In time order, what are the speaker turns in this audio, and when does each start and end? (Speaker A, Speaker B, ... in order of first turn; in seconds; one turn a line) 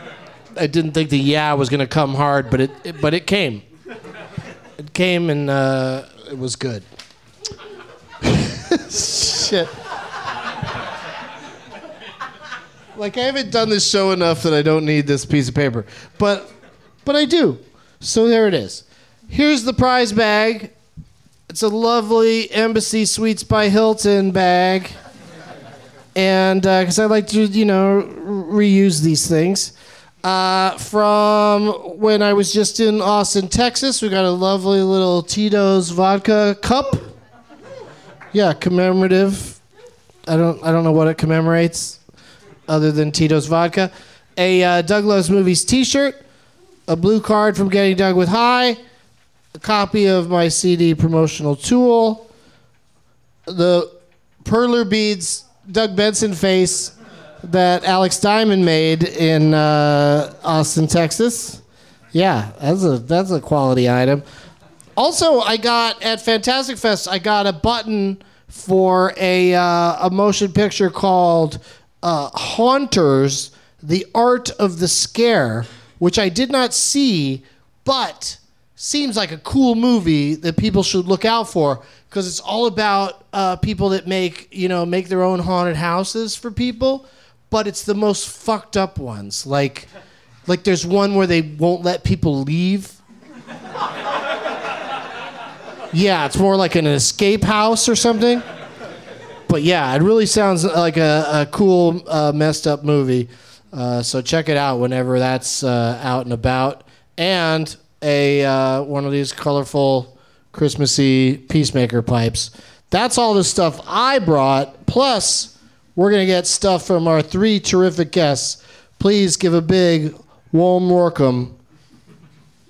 Speaker A: 0.6-3.6
Speaker A: 4.8-6.8
Speaker A: 8.2-9.7
Speaker A: 12.9-16.5
Speaker A: 17.0-20.7
Speaker A: 21.5-24.9
Speaker A: 26.1-37.1
Speaker A: 38.3-39.6
Speaker A: 40.3-42.0
Speaker A: 42.7-46.2
Speaker A: 46.9-48.8
Speaker A: 49.6-52.3
Speaker A: 53.5-53.9
Speaker A: 54.4-61.6
Speaker A: 62.1-64.2
Speaker A: 65.0-89.9
Speaker A: 90.5-93.0
Speaker A: 95.9-98.4
Speaker A: 99.5-121.5